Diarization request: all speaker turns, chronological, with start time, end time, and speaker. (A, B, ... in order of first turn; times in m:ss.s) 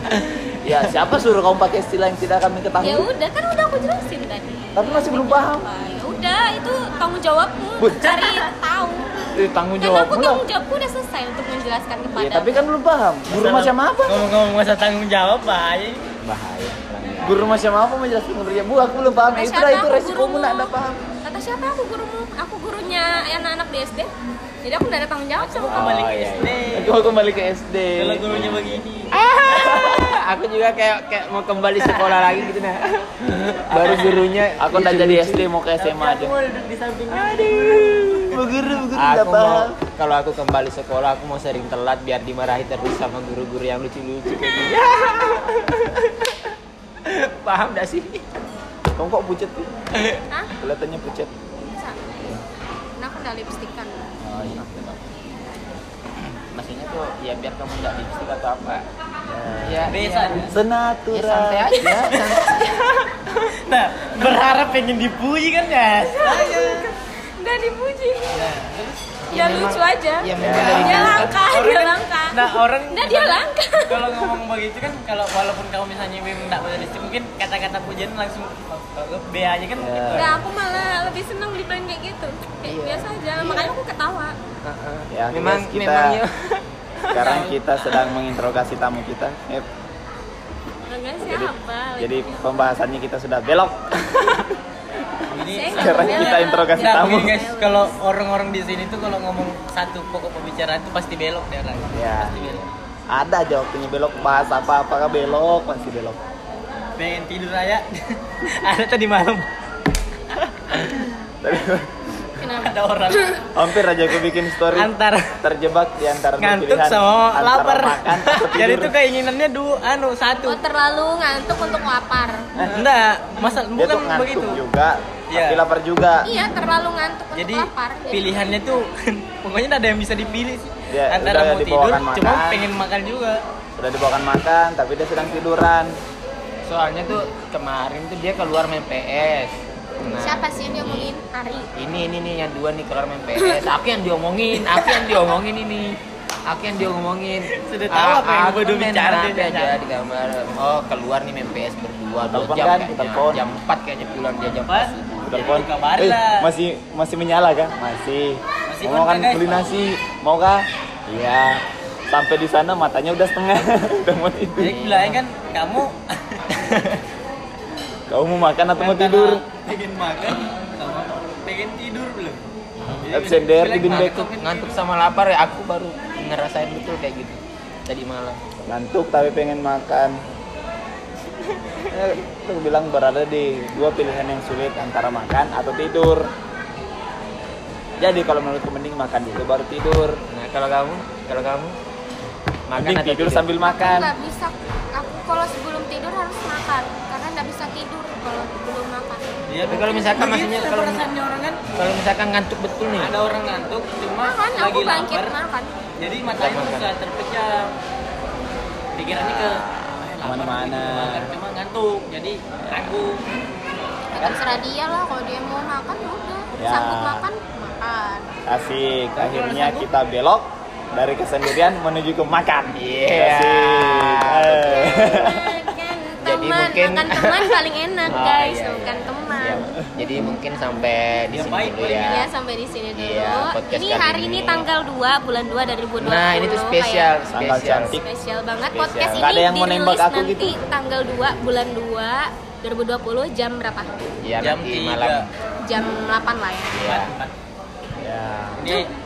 0:00.6-0:03.1 A
0:02.8-0:09.3 B
0:04.8-0:05.7 A
0:07.8-0:08.1 A
0:09.4-0:10.4 A
0:09.8-0:12.6 B
0:12.2-0:14.2 A
0:13.3-0:16.1 C
0:16.2-0:17.5 D
0:17.2-0:21.0 A
0:19.3-0:24.1 B
0:24.6-0:25.8 B
0:25.4-0:27.1 C
0:25.7-0:26.6 D
0:26.7-0:28.4 A
0:28.0-0:29.9 C
0:28.3-0:35.5 D
0:31.8-0:32.5 C
0:33.7-0:34.5 C
0:34.6-0:36.4 A
0:35.8-0:38.4 C
0:37.1-0:38.4 D
0:38.3-0:39.7 A
0:38.9-0:48.2 D
0:49.0-0:49.7 A
0:50.6-0:51.3 A
0:51.8-0:52.4 B
0:53.0-0:54.0 B
0:54.2-0:55.1 A
0:54.3-0:54.6 D
0:56.2-0:58.8 D
0:59.3-0:59.9 A
0:59.6-1:00.5 D
0:59.9-1:00.5 C
1:00.5-1:01.9 A
1:01.1-1:02.8 D
1:01.8-1:02.5 B
1:02.0-1:06.9 C
1:06.2-1:08.4 B
1:08.3-1:09.1 C
1:09.3-1:11.4 D
1:09.3-1:14.0 B
1:10.4-1:11.2 A
1:10.4-1:20.4 C
1:19.8-1:20.3 A
1:20.1-1:24.4 B
1:22.6-1:23.7 D
1:24.6-1:27.4 D
1:25.1-1:26.2 A
1:27.1-1:29.7 A
1:27.2-1:27.6 C
1:30.9-1:32.4 B
1:31.2-1:34.5 A
1:35.3-1:42.7 C
1:35.4-1:37.9 B
1:35.7-1:37.4 A
1:41.9-1:42.6 A
1:43.1-1:46.2 A
1:47.0-1:49.5 C
1:50.3-1:51.1 C
1:51.4-1:52.0 A
1:52.4-1:53.4 B
1:52.6-1:55.4 C
1:53.5-1:54.9 A
1:55.4-1:58.9 A
1:56.4-2:00.6 C
2:00.4-2:02.4 B
2:02.5-2:02.8 A
2:02.6-2:04.6 C
2:03.7-2:06.3 A
2:05.3-2:05.6 C
2:06.2-2:08.5 B
2:07.3-2:13.4 C
2:10.9-2:12.7 A
2:13.8-2:15.9 A
2:16.6-2:21.1 D
2:20.2-2:21.7 B
2:21.8-2:26.0 D
2:23.4-2:23.7 B
2:24.7-2:25.2 B
2:26.5-2:35.6 D
2:27.4-2:29.8 C
2:32.2-2:33.6 A
2:34.5-2:36.5 C
2:35.2-2:44.7 A
2:38.7-2:39.8 C
2:44.6-2:46.7 C
2:44.6-2:45.2 D
2:46.6-2:47.0 D
2:48.1-2:49.4 A
2:48.7-2:52.4 C
2:52.8-2:53.1 D
2:53.0-2:54.7 C
2:53.1-2:54.2 A
2:53.8-2:58.4 D
2:58.7-3:00.2 A
3:01.3-3:01.8 D
3:01.9-3:06.3 A
3:08.0-3:10.2 A
3:10.3-3:11.8 D
3:12.7-3:13.5 D
3:12.8-3:14.1 A
3:13.6-3:19.4 B
3:19.5-3:21.6 C
3:19.6-3:21.0 D
3:21.8-3:23.1 D
3:23.0-3:25.4 C
3:24.2-3:25.8 B
3:26.0-3:27.7 C
3:26.4-3:26.9 D
3:29.0-3:33.2 C
3:30.2-3:31.3 A
3:34.1-3:38.3 B
3:36.5-3:37.2 A
3:38.5-3:45.5 A
3:39.1-3:39.9 C
3:42.8-3:45.5 D
3:44.9-3:49.7 B
3:46.2-3:47.5 D
3:48.0-3:52.3 D
3:51.3-3:52.1 C
3:51.8-3:57.1 B
3:53.0-3:54.7 D
3:56.0-3:58.0 D
3:57.3-3:58.0 A
3:58.0-4:03.9 B
3:58.7-3:59.3 D
3:59.2-4:00.6 A
4:04.2-4:05.3 D
4:04.4-4:05.3 C
4:05.7-4:06.8 B
4:06.7-4:07.1 D
4:06.8-4:07.3 C
4:08.0-4:08.6 A
4:08.5-4:08.9 C